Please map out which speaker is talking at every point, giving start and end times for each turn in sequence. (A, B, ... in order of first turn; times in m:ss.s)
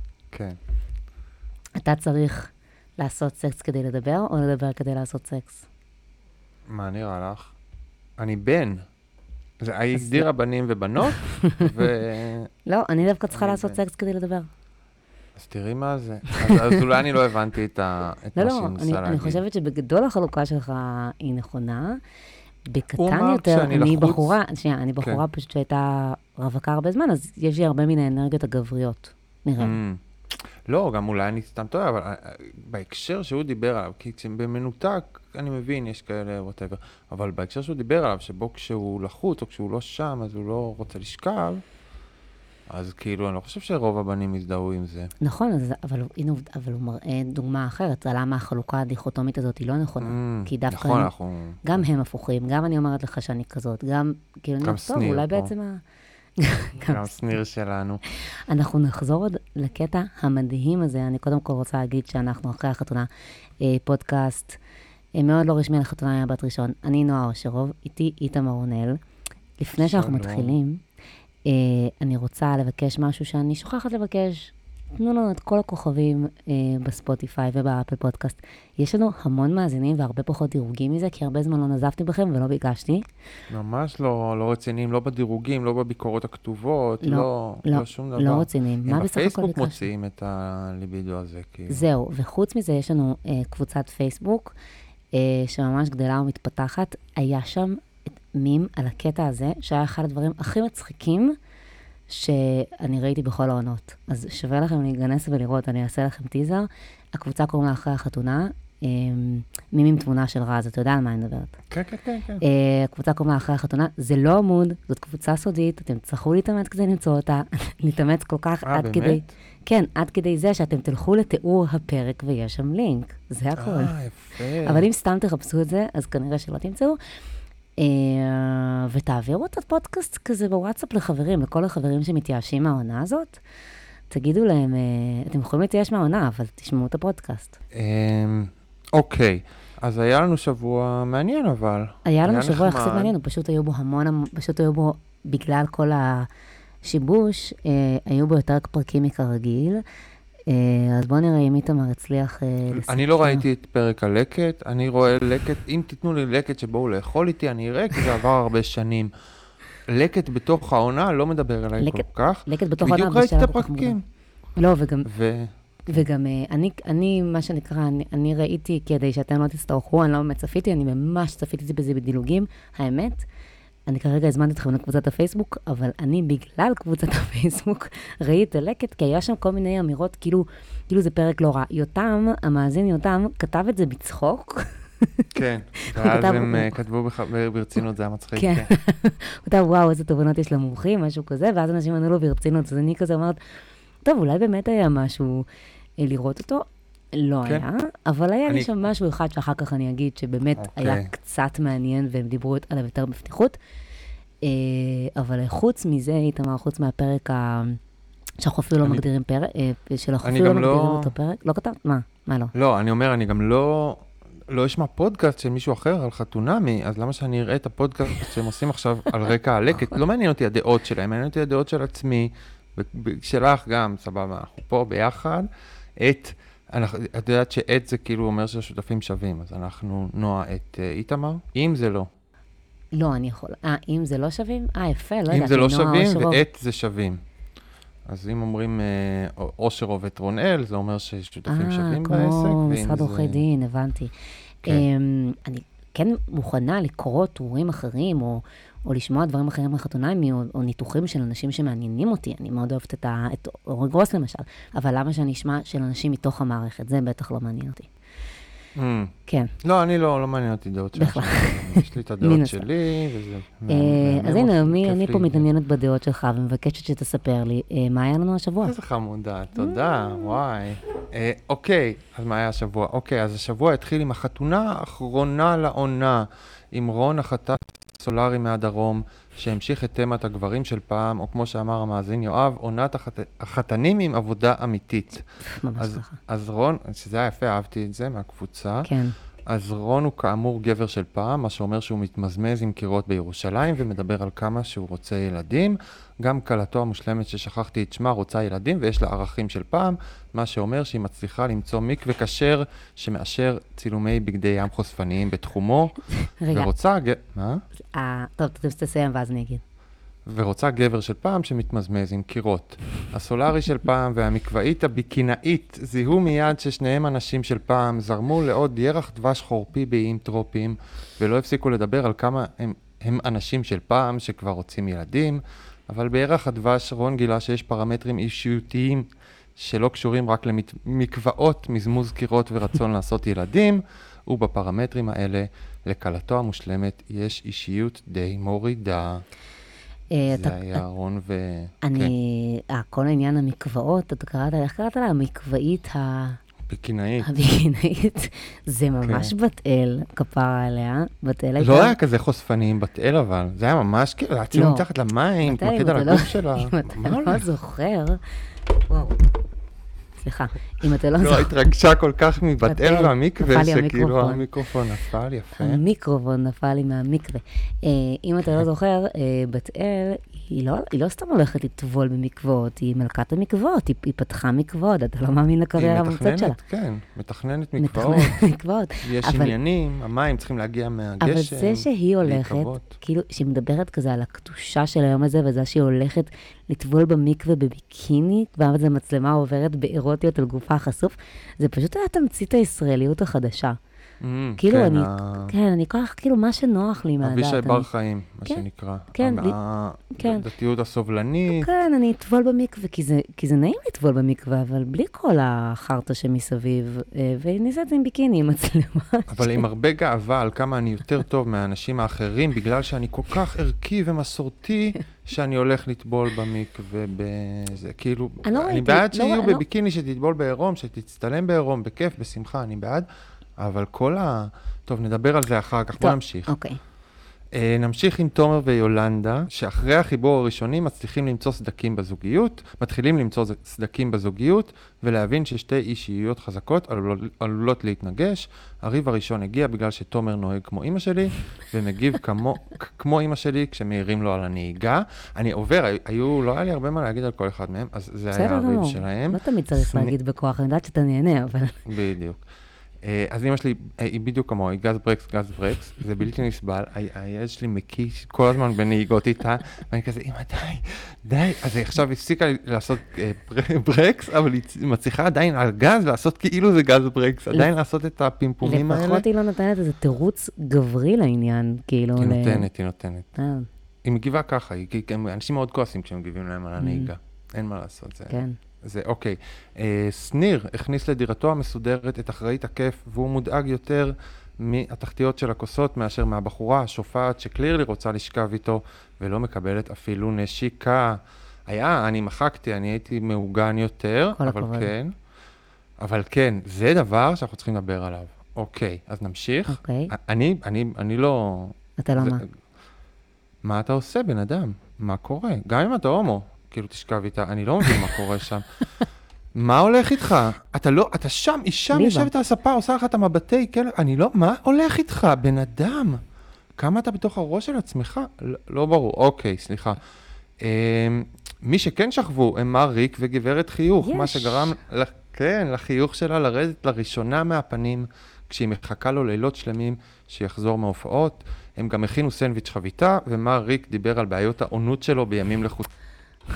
0:00.3-0:00.6 A
0:01.8-0:05.7 B
0:06.7-0:07.5 A
0:08.2-0:08.9 A
0:09.6-0:12.5 A
0:09.9-0:10.3 B
0:11.1-0:11.7 B
0:12.7-0:14.5 B
0:13.3-0:13.8 A
0:15.4-0:19.4 A
0:18.4-0:22.0 B
0:22.7-0:29.8 B
0:23.0-0:24.4 A
0:29.6-0:30.0 A
0:30.7-0:41.6 A
0:42.7-0:45.1 A
0:45.2-0:51.1 B
0:50.0-0:51.8 A
0:51.6-0:55.8 B
0:54.6-0:55.5 A
0:56.4-0:57.0 B
0:56.9-0:58.0 A
0:58.2-1:03.1 B
1:03.6-1:04.6 B
1:05.2-1:09.0 B
1:09.6-1:10.8 B
1:09.8-1:10.6 A
1:11.5-1:23.1 B
1:23.5-1:31.9 A
1:27.0-1:29.9 B
1:31.7-1:34.5 B
1:35.1-1:41.4 B
1:42.1-1:51.6 B
1:51.7-1:52.4 A
1:52.4-2:03.9 B
1:58.6-1:59.3 A
2:03.6-2:04.9 A
2:04.6-2:07.0 B
2:07.8-2:13.4 B
2:14.1-2:17.6 B
2:17.7-2:23.1 A
2:22.0-2:26.3 B
2:26.8-2:29.8 B
2:30.5-2:33.4 B
2:32.7-2:39.1 A
2:39.9-2:44.0 A
2:41.8-2:44.0 B
2:44.6-2:45.1 B
2:45.0-2:46.0 A
2:45.9-2:53.2 B
2:53.9-3:05.3 B
3:05.4-3:08.7 A
3:05.8-3:06.8 B
3:08.4-3:13.4 B
3:14.0-3:15.5 B
3:16.0-3:23.6 B
3:18.5-3:18.7 A
3:20.6-3:21.1 A
3:24.4-3:27.8 B
3:28.4-3:32.5 B
3:30.2-3:31.1 A
3:32.5-3:52.1 A
3:52.9-3:56.4 B
3:55.3-3:57.2 A
3:58.1-4:03.4 A
4:01.5-4:04.1 B
4:04.6-4:17.9 B
4:18.8-4:25.5 A
4:19.3-4:19.5 B
4:21.0-4:22.7 B
4:23.7-4:28.8 B
4:28.6-4:45.2 A
4:29.7-4:30.3 B
4:45.4-4:46.2 B
4:45.8-4:48.9 A
4:48.8-4:49.2 B
4:49.5-5:07.6 A
5:06.3-5:06.7 B
5:07.9-5:09.6 B
5:10.3-5:39.2 A
5:40.1-5:40.8 B
5:40.3-5:42.1 A
5:41.8-5:46.4 B
5:46.7-5:47.3 A
5:47.2-5:52.0 B
5:49.0-5:49.3 A
5:51.6-5:57.4 A
5:54.5-5:54.9 B
5:55.4-5:58.2 B
5:58.8-5:59.2 B
6:00.2-6:01.5 B
6:01.2-6:05.8 A
6:02.6-6:04.4 B
6:05.6-6:16.6 B
6:15.8-6:18.4 A
6:17.8-6:19.6 B
6:19.0-6:22.9 A
6:21.2-6:33.8 B
6:34.2-6:35.5 A
6:34.6-6:37.9 B
6:37.2-6:41.7 A
6:38.4-6:39.6 B
6:40.2-6:40.4 B
6:41.5-6:49.6 B
6:49.3-7:03.1 A
6:58.4-6:59.6 B
7:03.6-7:06.5 A
7:06.0-7:06.8 B
7:07.5-7:30.1 A
7:28.3-7:31.8 B
7:31.9-7:32.4 A
7:33.0-7:49.2 A
7:48.6-7:52.7 B
7:52.2-7:53.3 A
7:53.4-7:53.7 B
7:54.0-8:15.1 A
7:56.8-7:57.1 B
7:58.3-7:58.6 B
8:14.4-8:14.9 B
8:16.0-8:22.4 A
8:19.7-8:20.1 B
8:22.0-8:22.4 B
8:23.6-8:28.7 A
8:29.6-8:36.2 A
8:31.9-8:32.3 B
8:36.8-8:40.0 A
8:40.6-8:55.9 A
8:44.0-8:44.8 B